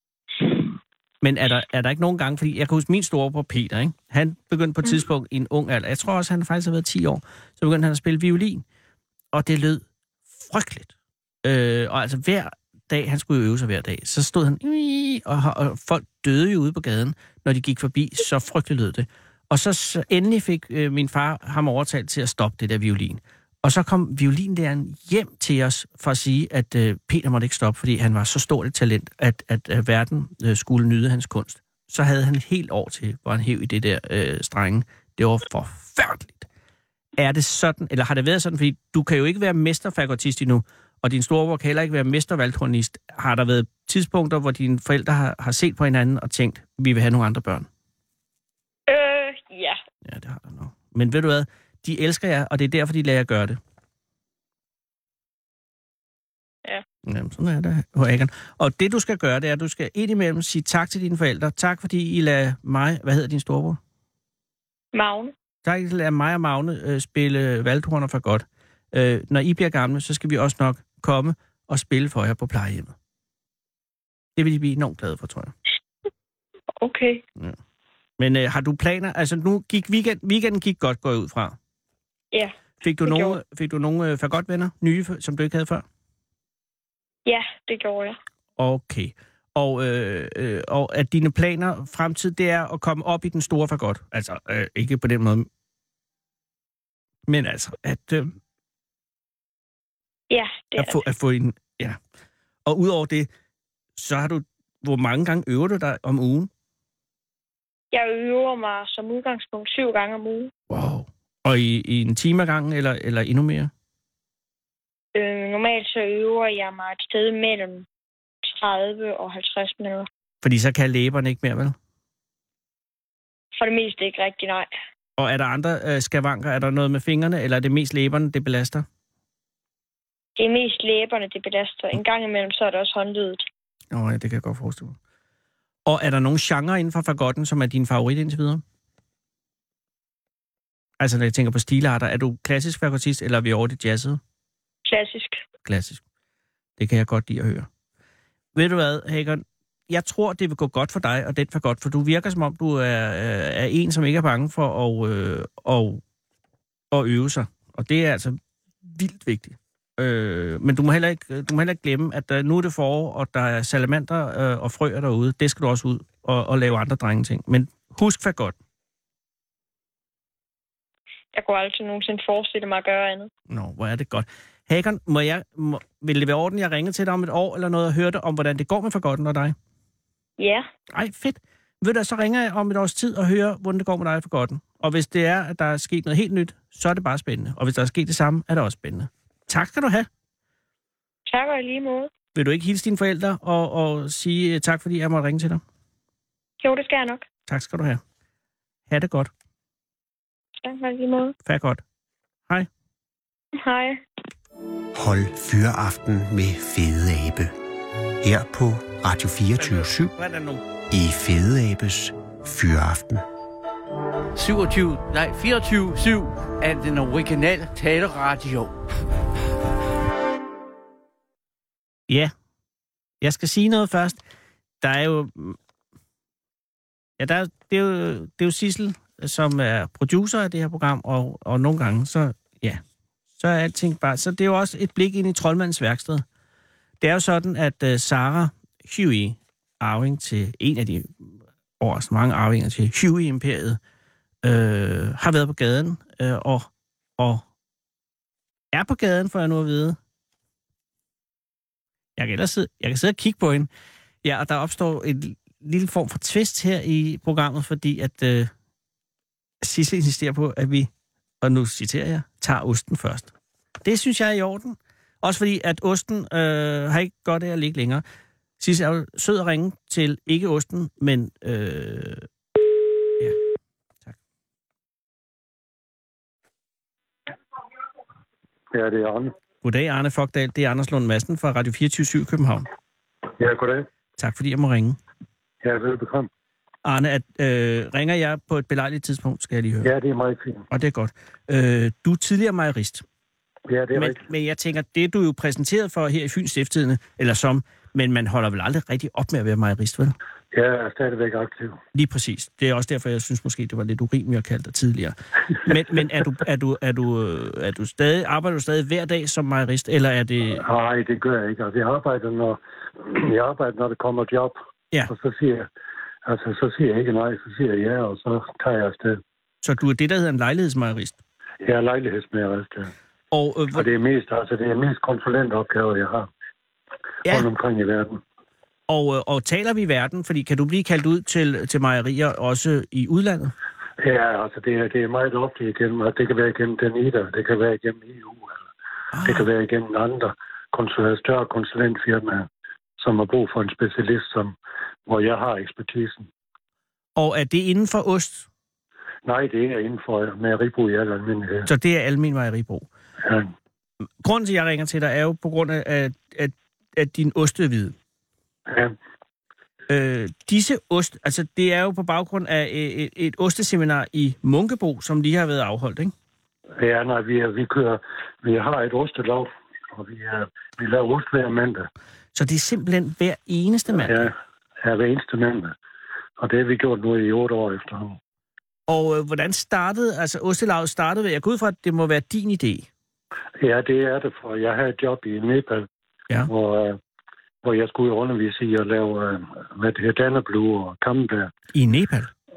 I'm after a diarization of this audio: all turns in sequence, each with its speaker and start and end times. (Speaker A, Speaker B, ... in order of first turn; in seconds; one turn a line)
Speaker A: 1.2-8.6
Speaker A: 9.3-10.9
Speaker A: 11.4-36.5
Speaker A: 37.2-47.7
Speaker B: 48.9-49.8
Speaker A: 50.0-53.6
Speaker A: 57.1-63.8
Speaker B: 64.9-65.3
Speaker A: 65.6-72.9
Speaker A: 74.4-75.5
Speaker B: 76.8-77.2
Speaker A: 78.2-81.6
Speaker B: 82.3-83.4
Speaker A: 82.8-85.8
Speaker B: 87.3-88.2
Speaker A: 88.6-95.5
Speaker A: 97.3-98.3
Speaker B: 100.3-101.0
Speaker A: 100.8-102.0
Speaker A: 102.7-103.3
Speaker A: 104.0-106.5
Speaker B: 107.9-110.5
Speaker A: 110.7-113.7
Speaker B: 115.1-117.9
Speaker B: 118.4-120.1
Speaker A: 120.4-121.8
Speaker B: 123.5-124.7
Speaker A: 125.2-128.9
Speaker B: 130.4-133.4
Speaker A: 133.9-134.9
Speaker A: 135.9-138.6
Speaker A: 141.0-144.2
Speaker B: 144.8-145.4
Speaker A: 145.7-146.0
Speaker A: 146.8-147.7
Speaker A: 148.6-156.0
Speaker A: 156.9-168.6
Speaker B: 171.3-173.3
Speaker A: 173.5-179.6
Speaker B: 180.4-180.7
Speaker A: 180.9-190.1
Speaker B: 191.3-192.1
Speaker A: 192.3-195.6
Speaker B: 196.6-197.3
Speaker A: 197.5-198.0
Speaker A: 198.9-199.3
Speaker B: 200.6-201.3
Speaker A: 201.4-201.8
Speaker B: 203.6-204.0
Speaker C: 204.9-207.5
Speaker C: 208.2-210.1
Speaker A: 209.6-210.6
Speaker C: 210.9-213.2
Speaker D: 214.3-218.7
Speaker A: 223.2-224.2
Speaker A: 224.8-225.6
Speaker A: 227.2-232.8
Speaker A: 233.4-236.2
Speaker A: 237.0-243.8
Speaker A: 244.4-247.4
Speaker A: 248.7-250.0
Speaker A: 252.2-253.7
Speaker A: 254.2-258.5
Speaker A: 259.6-260.9
Speaker A: 261.4-263.3
Speaker A: 263.8-268.0
Speaker A: 268.6-272.3
Speaker E: 278.7-279.3
Speaker A: 279.6-282.7
Speaker E: 283.4-283.9
Speaker A: 284.2-285.0
Speaker E: 285.6-286.3
Speaker A: 286.8-289.9
Speaker E: 289.8-290.7
Speaker A: 290.7-293.0
Speaker E: 293.7-294.3
Speaker A: 293.9-300.2
Speaker E: 300.5-301.8
Speaker A: 301.9-310.6
Speaker E: 310.5-314.6
Speaker E: 315.1-315.7
Speaker E: 316.2-319.2
Speaker A: 319.6-321.2
Speaker E: 321.6-322.9
Speaker A: 323.3-323.9
Speaker E: 323.7-326.3
Speaker E: 327.2-328.2
Speaker A: 328.9-333.5
Speaker E: 334.0-338.6
Speaker A: 339.1-339.5
Speaker E: 339.2-342.5
Speaker E: 343.0-344.6
Speaker E: 345.1-346.3
Speaker A: 347.2-348.5
Speaker E: 349.2-351.7
Speaker A: 351.7-352.9
Speaker E: 353.2-353.5
Speaker A: 354.2-357.9
Speaker E: 358.7-358.9
Speaker A: 359.9-366.1
Speaker E: 366.8-371.9
Speaker A: 372.4-374.3
Speaker E: 373.9-375.7
Speaker E: 376.4-378.2
Speaker A: 378.9-382.9
Speaker E: 383.6-385.9
Speaker E: 386.4-387.0
Speaker E: 387.6-391.5
Speaker A: 391.7-392.3